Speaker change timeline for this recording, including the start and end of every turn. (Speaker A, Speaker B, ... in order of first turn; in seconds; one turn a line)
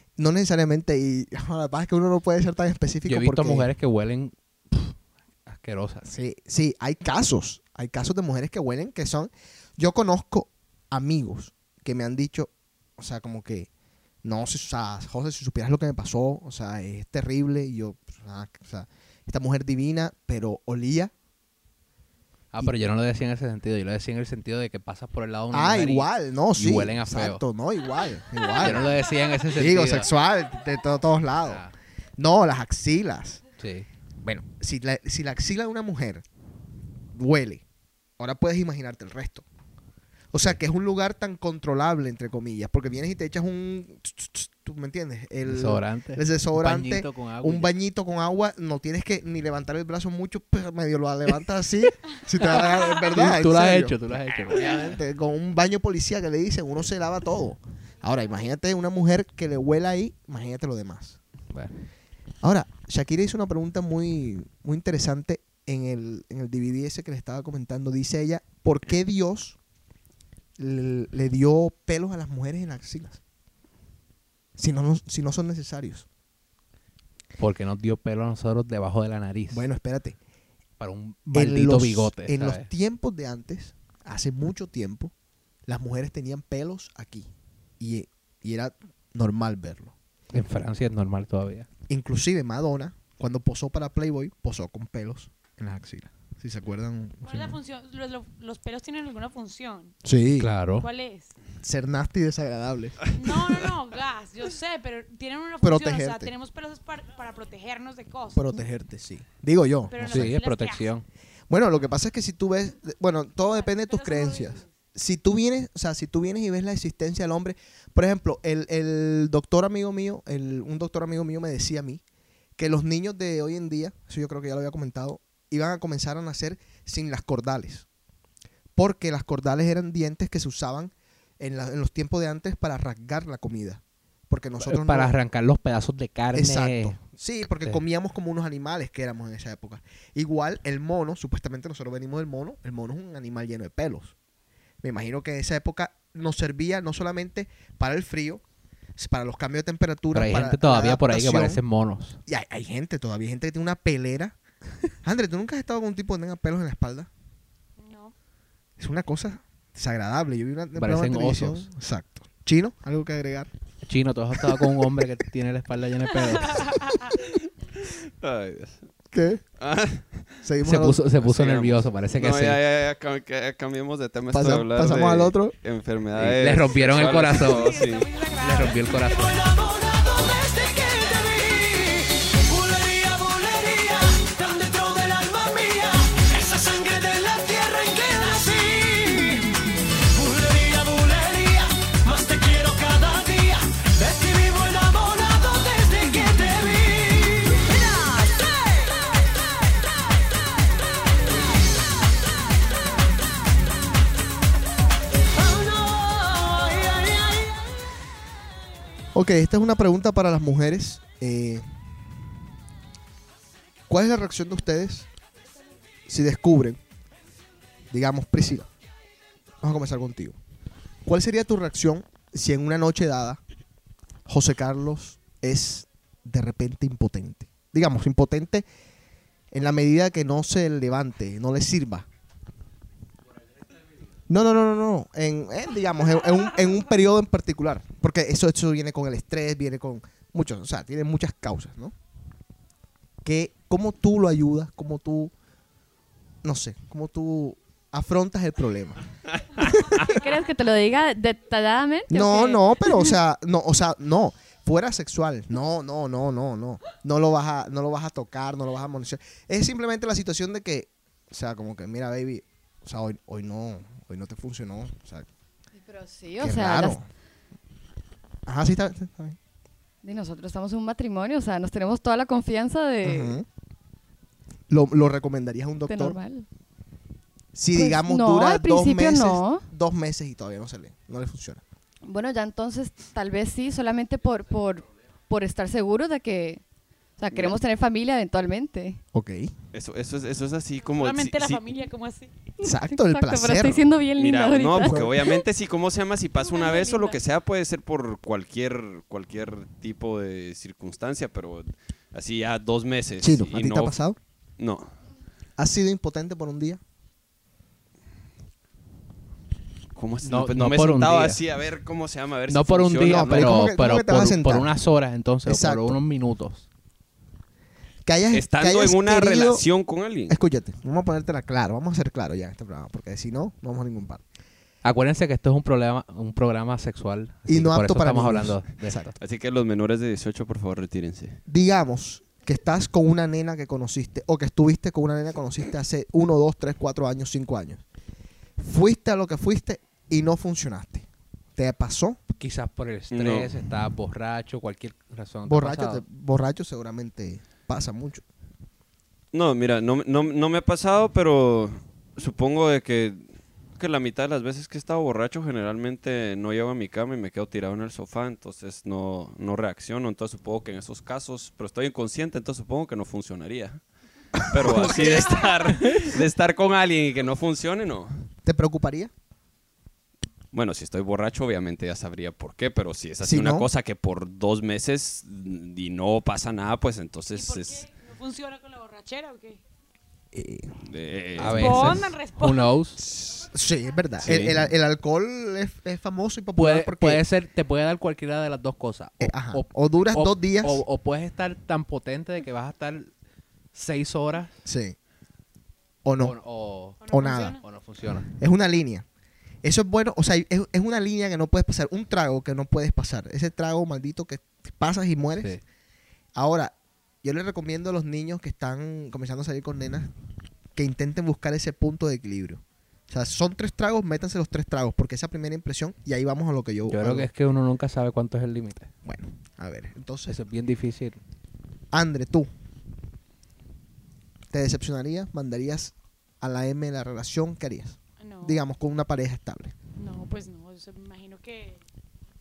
Speaker A: 0.2-3.7
Speaker B: 3.1-6.1
Speaker A: 6.0-13.7
Speaker A: 14.2-21.1
Speaker B: 22.5-27.4
Speaker A: 25.5-29.0
Speaker B: 28.6-30.1
Speaker A: 29.5-31.6
Speaker B: 31.5-31.7
Speaker A: 32.2-33.4
Speaker B: 33.6-33.9
Speaker A: 34.2-36.2
Speaker A: 37.1-37.6
Speaker A: 38.2-39.5
Speaker A: 40.3-61.2
Speaker B: 45.5-47.7
Speaker B: 52.4-54.9
Speaker A: 62.4-69.6
Speaker A: 70.6-73.2
Speaker A: 74.6-76.1
Speaker B: 77.4-79.7
Speaker A: 79.5-80.2
Speaker B: 80.8-82.7
Speaker A: 81.3-85.1
Speaker A: 85.7-90.0
Speaker B: 90.3-91.7
Speaker A: 91.9-97.6
Speaker C: 97.2-100.0
Speaker A: 100.0-100.5
Speaker B: 100.4-100.9
Speaker C: 100.8-101.3
Speaker A: 101.6-103.1
Speaker C: 103.1-108.6
Speaker A: 105.6-106.3
Speaker A: 108.3-110.3
Speaker C: 109.9-110.9
Speaker B: 110.0-111.1
Speaker A: 111.5-122.0
Speaker C: 113.5-114.7
Speaker A: 122.6-127.9
Speaker A: 128.8-135.1
Speaker B: 134.6-137.0
Speaker A: 136.3-144.1
Speaker A: 144.8-148.4
Speaker A: 149.0-151.6
Speaker B: 150.1-152.2
Speaker A: 152.3-154.4
Speaker A: 155.0-157.1
Speaker C: 157.8-158.2
Speaker A: 158.8-163.5
Speaker B: 160.8-161.7
Speaker B: 163.9-166.7
Speaker C: 166.5-167.1
Speaker D: 167.8-168.9
Speaker A: 169.1-169.4
Speaker D: 169.6-170.4
Speaker A: 170.4-171.0
Speaker B: 170.6-172.6
Speaker D: 171.2-178.1
Speaker A: 174.3-175.6
Speaker B: 176.2-177.7
Speaker C: 177.5-178.9
Speaker B: 178.4-179.3
Speaker E: 179.0-189.5
Speaker E: 190.1-197.7
Speaker A: 209.1-211.6
Speaker A: 213.9-215.1
Speaker A: 216.1-216.8
Speaker A: 217.9-218.7
Speaker A: 219.6-220.4
Speaker A: 221.1-223.4
Speaker A: 224.3-228.7
Speaker A: 229.5-232.1
Speaker A: 234.3-241.9
Speaker A: 243.2-245.3
Speaker A: 246.4-249.0
Speaker A: 249.6-250.2
Speaker F: 250.1-253.1
Speaker A: 252.1-265.3
Speaker F: 265.8-267.0
Speaker A: 266.4-267.1
Speaker A: 268.5-269.4
Speaker F: 270.0-273.4
Speaker A: 273.0-273.5
Speaker A: 274.7-276.2
Speaker F: 275.9-276.5
Speaker A: 277.5-281.6
Speaker F: 277.7-279.6
Speaker F: 282.1-286.6
Speaker F: 287.2-289.0
Speaker A: 289.1-289.5
Speaker D: 289.7-291.7
Speaker C: 290.8-292.3
Speaker F: 292.6-295.4
Speaker A: 292.6-293.9
Speaker D: 294.2-304.0
Speaker A: 294.8-295.1
Speaker C: 296.5-296.9
Speaker F: 296.6-297.1
Speaker A: 303.2-304.2
Speaker D: 304.6-304.9
Speaker A: 305.6-306.8
Speaker D: 310.0-313.6
Speaker B: 310.2-311.4
Speaker B: 312.5-316.7
Speaker A: 313.1-314.7
Speaker A: 315.5-316.0
Speaker A: 318.1-319.6
Speaker D: 318.3-320.4
Speaker A: 320.3-324.2
Speaker B: 324.8-329.2
Speaker A: 327.5-329.1
Speaker D: 329.2-331.4
Speaker A: 331.5-337.8
Speaker A: 338.6-342.2
Speaker B: 342.4-346.1
Speaker D: 343.1-343.6
Speaker A: 345.5-348.2
Speaker D: 349.3-353.3
Speaker D: 353.8-363.8
Speaker D: 364.4-368.2
Speaker A: 364.5-365.4
Speaker A: 368.4-369.1
Speaker D: 370.5-377.9
Speaker A: 373.2-373.7
Speaker C: 377.3-379.6
Speaker A: 380.3-380.7
Speaker D: 380.9-382.0
Speaker B: 381.4-383.0
Speaker C: 381.5-382.7
Speaker A: 383.2-387.2
Speaker B: 384.2-384.6
Speaker B: 386.6-393.1
Speaker A: 389.2-390.9
Speaker B: 393.7-394.6
Speaker A: 394.6-395.0
Speaker A: 396.1-396.4
Speaker B: 396.2-398.3
Speaker C: 397.0-397.6
Speaker A: 397.1-397.6
Speaker A: 398.3-399.1
Speaker A: 399.6-405.6
Speaker A: 406.4-410.1
Speaker A: 410.8-417.3
Speaker B: 416.9-418.9
Speaker A: 419.1-420.4
Speaker B: 420.3-421.2
Speaker A: 421.9-422.5
Speaker A: 424.5-429.8
Speaker C: 428.2-428.6
Speaker C: 430.0-431.8